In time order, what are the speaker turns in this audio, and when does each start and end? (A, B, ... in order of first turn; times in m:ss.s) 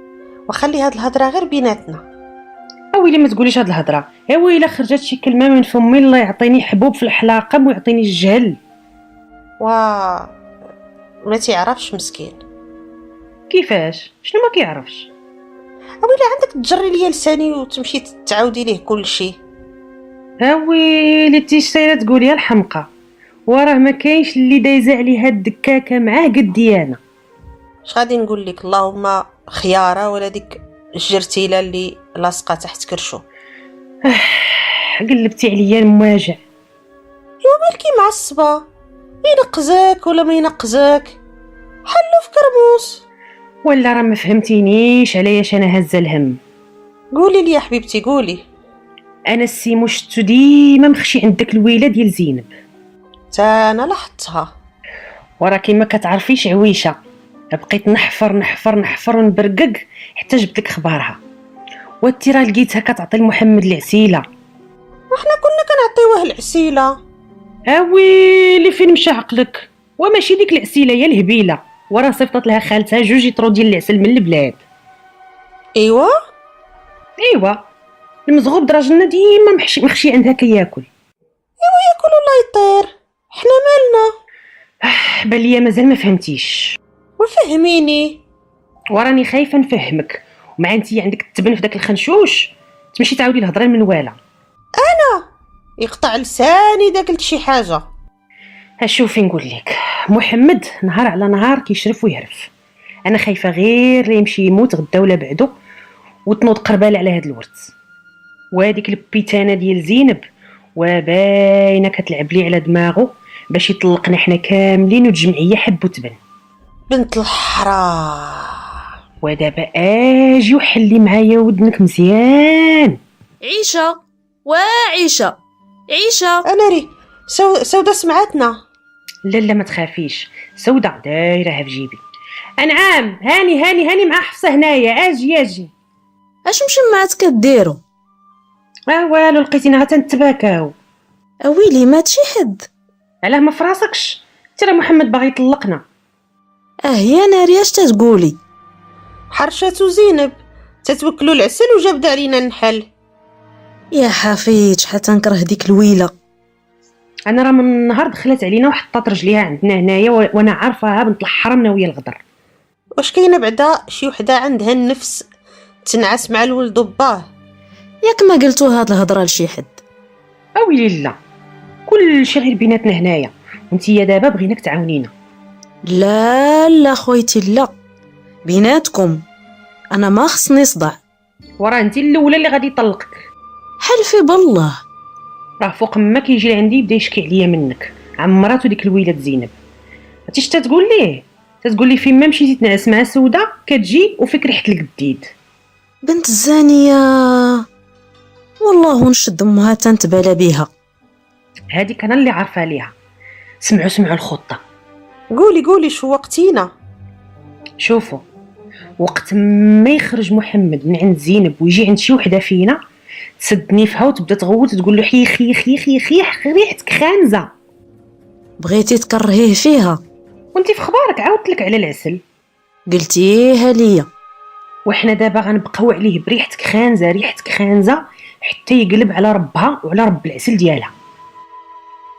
0:00.5-0:02.0 A
0:02.9-0:08.6 B
0:09.6-0:10.3 A
0:11.2-0:12.4 A
0:13.5-0:15.1 B
0:16.0-0:19.4 A
0:20.4-0:22.9 B
0:23.5-0:27.0 B
0:27.9-0:33.2 A
0:34.1-0:36.4 B
0:37.4-0:38.6 A
0:39.2-0:41.2 A
0:41.9-0:43.0 A
0:43.6-0:46.4 B
0:47.1-0:48.4 A
0:49.3-0:52.5 B
0:53.3-0:54.5 A
0:55.4-0:57.0 B
0:57.5-1:01.2 B
1:02.0-1:04.2 B
1:05.1-1:07.0 A
1:07.7-1:14.6 B
1:15.8-1:16.2 A
1:17.2-1:17.6 B
1:18.3-1:20.9 B
1:21.6-1:24.1 A
1:24.8-1:26.8 B
1:27.2-1:28.2 A
1:28.9-1:34.2 B
1:34.8-1:35.2 A
1:35.8-1:37.9 A
1:38.8-1:42.5 B
1:43.1-1:45.5 B
1:46.3-1:47.7 B
1:48.5-1:50.2 B
1:50.8-1:56.2 B
1:56.9-1:58.7 A
1:59.2-2:03.0 B
2:03.4-2:05.4 C
2:05.9-2:06.5 C
2:06.5-2:08.6 A
2:09.3-2:12.0 B
2:12.6-2:15.7 B
2:16.5-2:17.8 C
2:18.9-2:20.7 B
2:21.4-2:22.7 C
2:23.2-2:25.8 B
2:26.9-2:28.4 C
2:29.3-2:32.9 A
2:33.9-2:36.1 C
2:37.3-2:42.2 B
2:43.0-2:45.3 A
2:45.8-2:47.3 A
2:48.0-2:49.8 C
2:50.6-2:51.2 B
2:51.9-2:55.1 B
2:55.9-2:57.8 C
2:58.4-2:59.2 C
2:59.9-3:01.0 C
3:01.6-3:03.2 B
3:03.8-3:04.8 C
3:05.6-3:09.5 B
3:10.3-3:15.3 B
3:16.0-3:17.6 C
3:18.6-3:20.7 C
3:21.7-3:22.9 B
3:23.6-3:24.6 B
3:25.3-3:26.7 A
3:27.8-3:28.2 B
3:29.0-3:32.8 B
3:33.4-3:37.5 B
3:38.6-3:40.0 C
3:40.6-3:42.2 B
3:42.9-3:44.1 C
3:44.9-3:50.9 B